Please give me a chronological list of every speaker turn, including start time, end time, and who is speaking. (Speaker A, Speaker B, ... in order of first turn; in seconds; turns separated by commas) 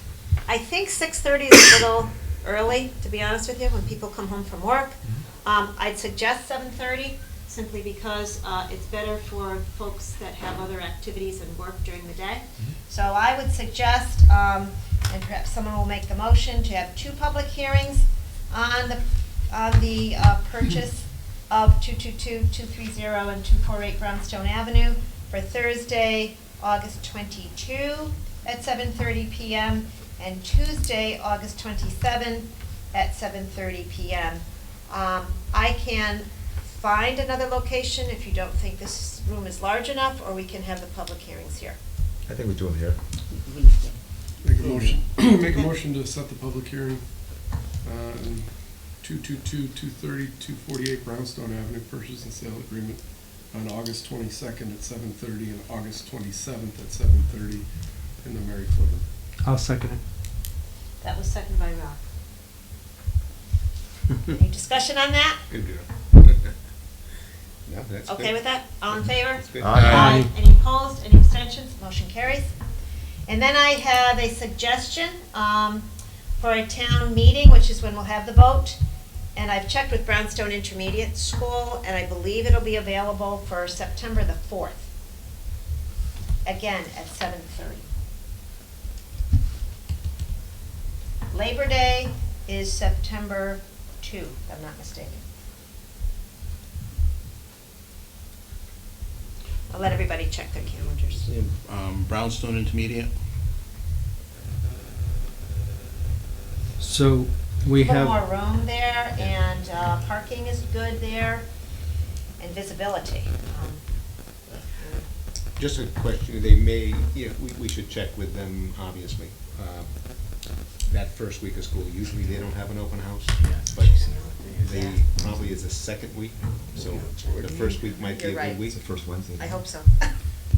Speaker A: 0.5-41.8, Speaker B: 42.3-43.0, Speaker C: 43.3-44.0, Speaker D: 44.4-59.0, Speaker C: 44.6-45.0, Speaker E: 59.4-60.0, Speaker A: 61.0-62.0, Speaker A: 64.3-65.4, Speaker F: 65.5-66.5, Speaker F: 67.7-70.2, Speaker A: 68.1-72.5, Speaker B: 69.6-70.1, Speaker C: 69.8-70.2, Speaker A: 73.3-75.9, Speaker A: 76.4-78.8, Speaker A: 79.3-84.9, Speaker A: 86.5-87.9, Speaker A: 91.3-95.2, Speaker A: 99.7-101.3, Speaker C: 101.2-103.2, Speaker E: 106.8-108.2, Speaker A: 107.8-111.5, Speaker A: 112.4-115.1, Speaker F: 115.5-128.8, Speaker A: 123.8-125.0, Speaker A: 127.6-130.2, Speaker B: 128.7-129.6